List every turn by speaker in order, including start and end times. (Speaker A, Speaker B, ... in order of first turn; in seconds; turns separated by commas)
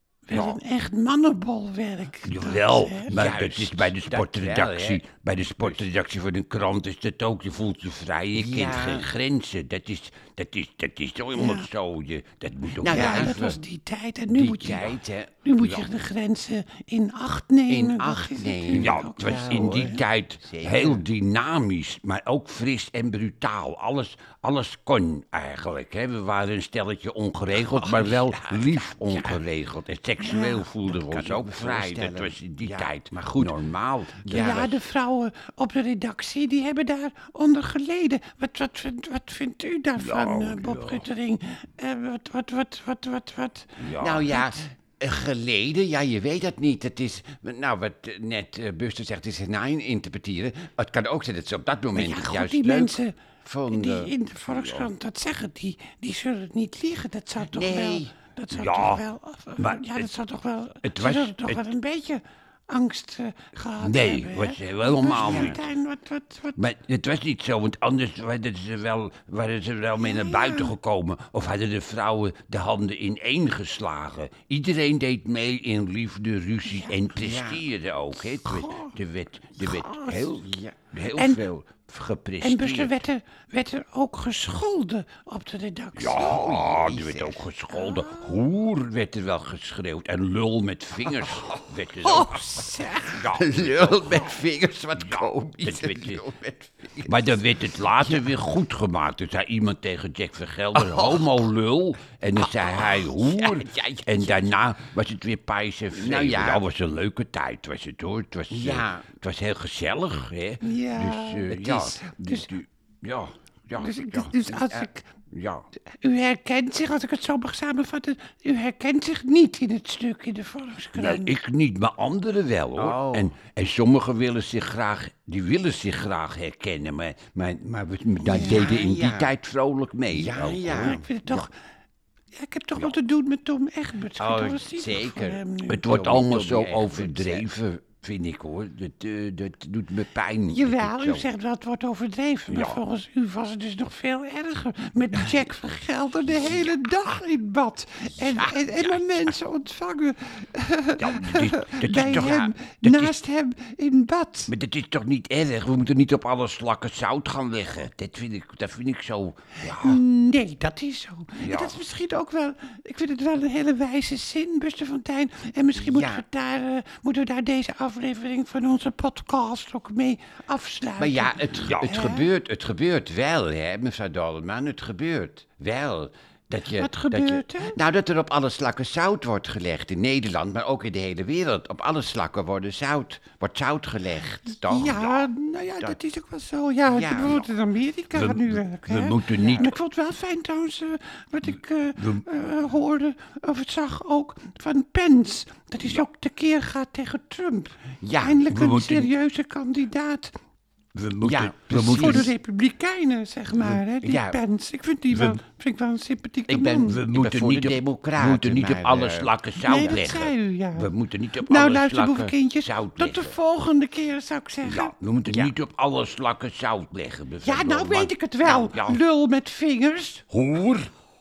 Speaker A: 0.3-3.1, Speaker B: 0.3-0.6, Speaker B: 2.3-13.6, Speaker C: 3.1-5.0, Speaker C: 8.3-9.1, Speaker A: 11.4-11.7, Speaker C: 12.8-13.6, Speaker A: 12.9-20.0, Speaker C: 14.3-15.5, Speaker C: 17.7-21.1, Speaker B: 18.7-34.6, Speaker C: 27.5-29.4, Speaker C: 30.2-34.8, Speaker A: 34.3-43.9, Speaker B: 40.0-41.1, Speaker B: 43.8-44.4, Speaker C: 44.0-54.1, Speaker A: 52.0-53.2, Speaker A: 53.7-66.6, Speaker B: 54.5-54.9, Speaker C: 57.5-58.1, Speaker B: 58.5-59.0, Speaker B: 59.6-60.1, Speaker B: 60.8-61.6, Speaker B: 63.8-65.7, Speaker C: 65.1-65.6, Speaker B: 66.6-83.0, Speaker A: 70.0-70.8, Speaker A: 76.7-77.0, Speaker C: 77.2-77.6, Speaker A: 78.3-78.9, Speaker A: 79.6-80.2, Speaker C: 80.2-80.9, Speaker A: 81.2-81.4, Speaker A: 82.4-86.5, Speaker B: 86.0-94.4, Speaker C: 86.1-87.4, Speaker A: 87.8-88.2, Speaker A: 92.0-93.2, Speaker C: 93.2-97.3, Speaker B: 95.0-96.2, Speaker B: 97.0-114.6, Speaker C: 98.0-98.3, Speaker C: 100.7-101.5, Speaker C: 102.3-104.5, Speaker C: 106.0-106.6, Speaker C: 108.5-109.1, Speaker A: 110.6-112.5, Speaker A: 113.7-115.0, Speaker C: 114.6-114.9, Speaker B: 115.3-115.7, Speaker A: 116.0-121.3, Speaker B: 121.0-131.4, Speaker C: 122.8-123.4, Speaker C: 128.2-129.3, Speaker A: 128.3-128.9, Speaker C: 130.1-131.1, Speaker A: 130.6-131.5, Speaker A: 132.3-135.9, Speaker C: 134.2-137.5, Speaker B: 135.7-141.3, Speaker A: 140.5-154.5, Speaker B: 142.5-142.8, Speaker C: 148.2-148.6, Speaker B: 148.7-149.3, Speaker B: 151.0-153.1, Speaker C: 152.2-152.5, Speaker B: 154.5-160.0, Speaker A: 159.6-172.3, Speaker B: 161.4-161.8, Speaker C: 165.8-166.2, Speaker C: 171.0-185.2, Speaker B: 171.6-172.0, Speaker A: 176.8-177.8, Speaker A: 184.6-200.3, Speaker C: 186.9-187.4, Speaker B: 188.1-189.8, Speaker C: 189.4-189.7, Speaker B: 191.4-192.3, Speaker C: 198.0-198.5, Speaker B: 198.5-199.1, Speaker B: 200.9-202.3, Speaker C: 201.2-202.3, Speaker A: 201.7-207.0, Speaker C: 204.0-204.4, Speaker B: 205.1-205.4, Speaker C: 206.5-210.1, Speaker B: 206.8-213.4, Speaker A: 209.6-214.9, Speaker B: 214.6-219.0, Speaker C: 215.3-215.5, Speaker A: 217.4-220.2, Speaker B: 220.3-220.9